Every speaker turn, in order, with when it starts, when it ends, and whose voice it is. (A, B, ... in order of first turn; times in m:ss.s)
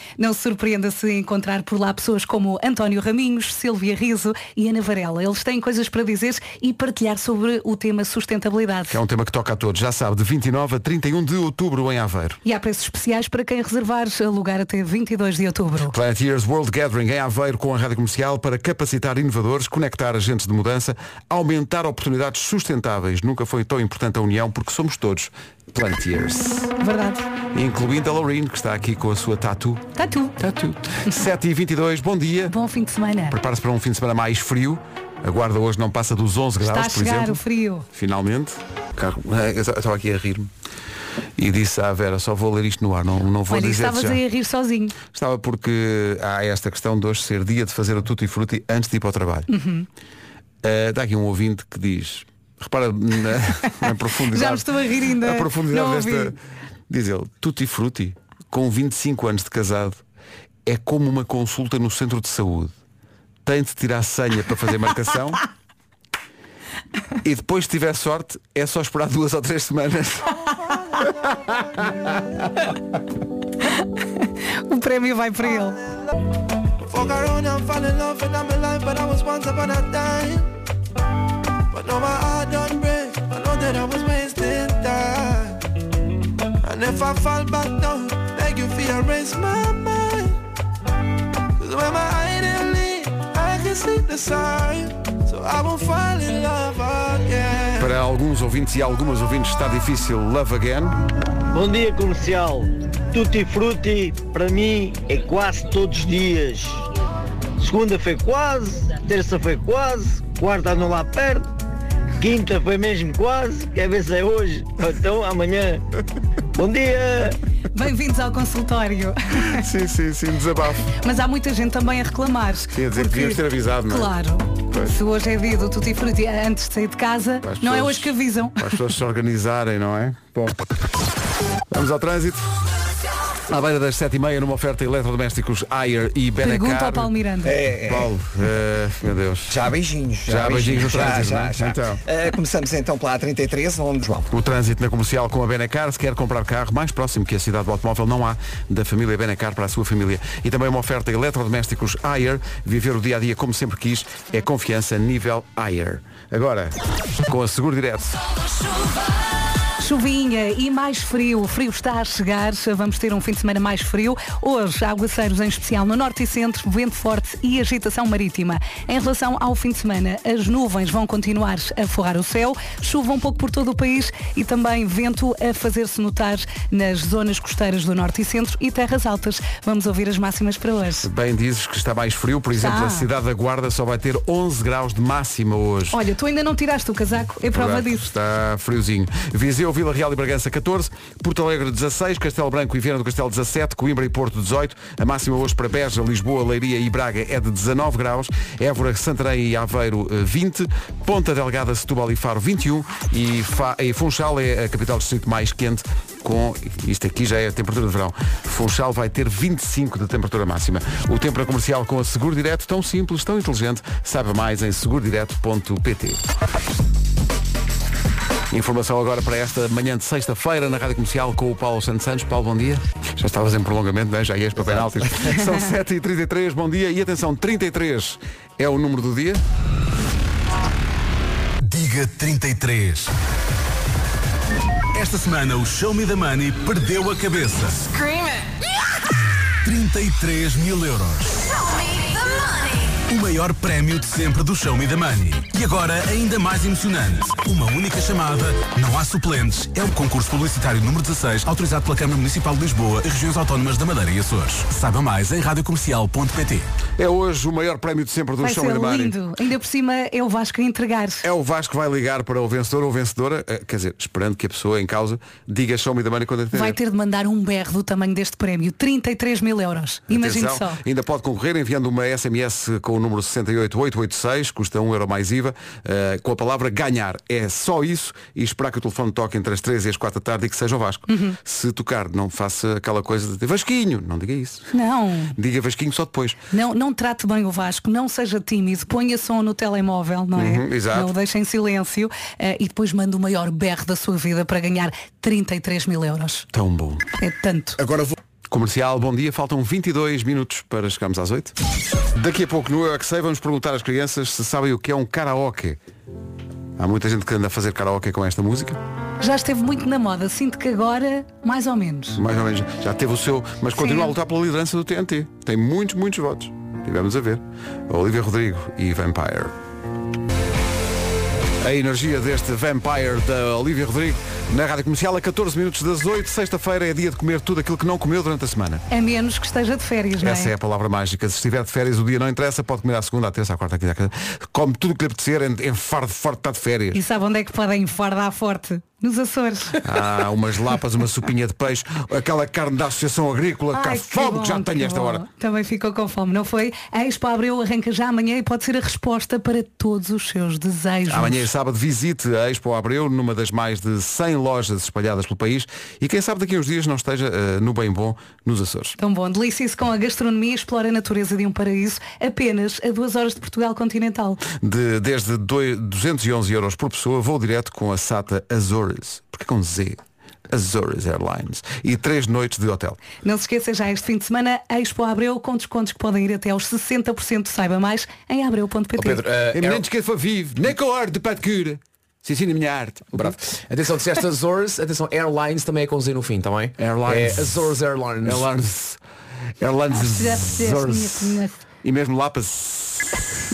0:00.2-0:09.0 A
0:08.9-0:12.4 B
0:12.4-0:16.0 A
0:15.9-0:26.7 B
0:26.8-0:27.3 A
0:27.5-0:32.5 B
0:30.0-0:30.4 A
0:32.5-0:33.4 A
0:33.3-0:37.4 B
0:36.6-0:37.8 A
0:37.9-0:40.5 B
0:41.4-0:44.2 B
0:43.5-0:45.0 A
0:45.1-0:49.5 B
0:49.5-0:49.9 A
0:50.6-0:56.4 B
0:54.3-0:56.3 A
0:56.9-1:00.0 B
1:00.7-1:02.8 B
1:03.4-1:05.4 B
1:07.2-1:10.4 B
1:11.3-1:11.9 C
1:11.3-1:12.1 B
1:14.7-1:15.8 A
1:16.9-1:20.5 C
1:21.7-1:25.6 C
1:26.6-1:30.4 C
1:31.6-1:37.9 C
1:37.8-1:41.0 B
1:41.5-1:46.8 D
1:47.6-1:51.5 D
1:52.2-1:55.8 D
1:56.6-1:57.4 D
1:57.7-1:59.6 A
1:59.4-2:00.9 B
2:00.9-2:08.7 A
2:02.7-2:04.1 B
2:07.4-2:10.6 B
2:11.7-2:12.5 B
2:13.5-2:17.1 B
2:16.4-2:17.6 A
2:17.4-2:18.1 E
2:17.9-2:19.6 B
2:19.5-2:24.3 E
2:20.3-2:22.0 B
2:24.3-2:38.2 B
2:39.8-3:01.1 A
3:01.0-3:06.0 B
3:02.6-3:03.1 A
3:05.9-3:08.1 A
3:07.5-3:36.2 B
3:38.5-3:49.4 B
3:51.6-3:53.1 F
3:54.9-3:57.9 F
3:59.6-4:01.5 F
4:03.0-4:16.7 F
4:17.0-4:19.2 B
4:18.4-4:21.2 A
4:21.2-4:26.8 B
4:26.5-4:30.8 A
4:30.1-4:44.7 B
4:41.1-4:41.4 A
4:44.7-4:45.4 A
4:45.4-4:46.4 B
4:46.5-4:56.5 A
4:50.4-4:51.1 B
4:56.5-4:57.1 B
4:57.2-4:57.8 A
4:58.5-5:01.5 B
5:02.2-5:05.8 B
5:06.8-5:08.8 B
5:09.2-5:12.2 A
5:12.2-5:19.5 B
5:13.8-5:14.1 A
5:21.6-5:28.8 B
5:28.9-5:30.5 A
5:30.2-5:37.0 B
5:36.9-5:39.8 A
5:39.8-5:45.2 B
5:43.7-5:51.5 A
5:51.1-5:59.0 B
5:59.0-6:04.4 A
6:04.5-6:13.0 B
6:13.2-6:19.2 A
6:19.0-6:19.8 G
6:19.5-6:23.4 B
6:23.1-6:28.5 G
6:26.8-6:27.7 B
6:28.2-6:29.0 B
6:29.6-6:33.3 B
6:29.9-6:31.6 A